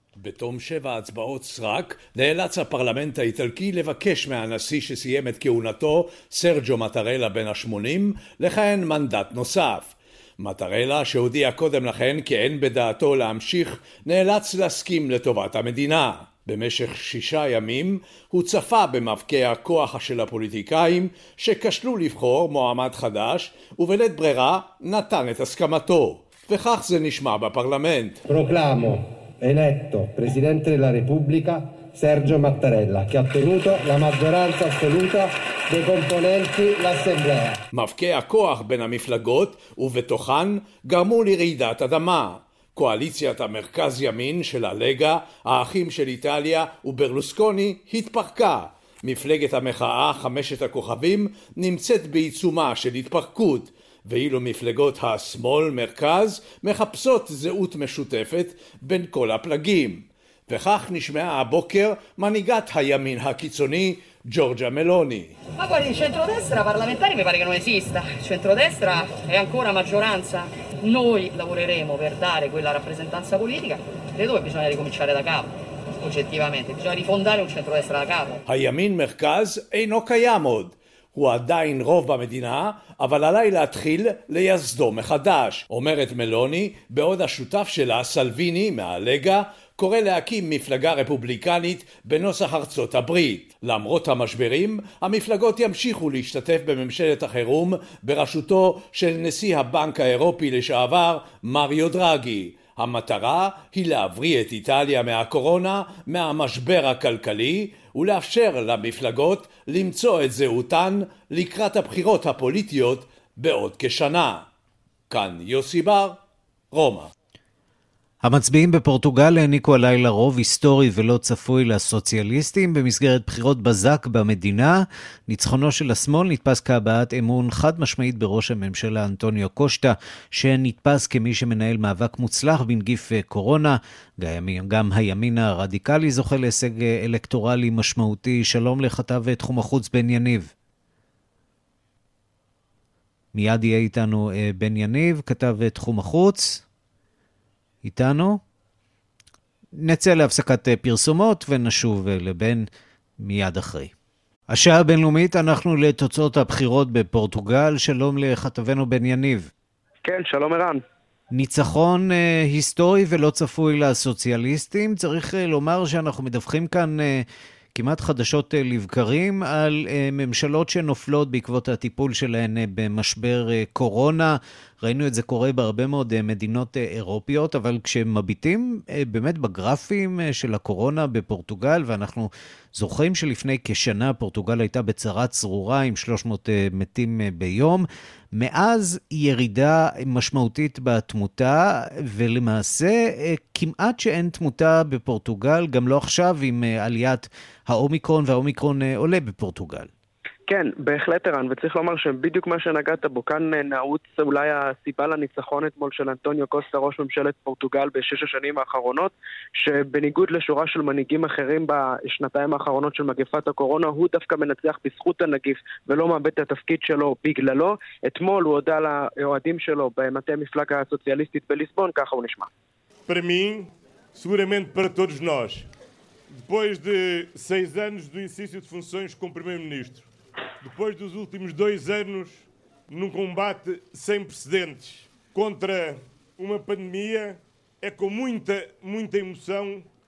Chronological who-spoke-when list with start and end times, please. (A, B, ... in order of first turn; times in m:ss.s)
0:00.2-0:28.2 A
0:28.3-0:37.6 B
0:37.7-1:05.4 A
1:05.6-1:18.4 C
1:18.5-1:54.4 A
1:55.1-1:56.2 A
1:56.7-1:57.1 A
1:58.2-2:20.5 D
2:23.3-2:26.6 D
2:27.8-2:28.4 D
2:29.8-2:32.7 D
2:33.2-2:33.9 D
2:34.5-2:39.5 D
2:40.0-2:40.8 E
2:41.3-3:19.9 D
3:20.5-3:42.5 E
3:43.1-3:45.7 F
3:46.4-3:50.1 F
3:50.6-3:59.9 F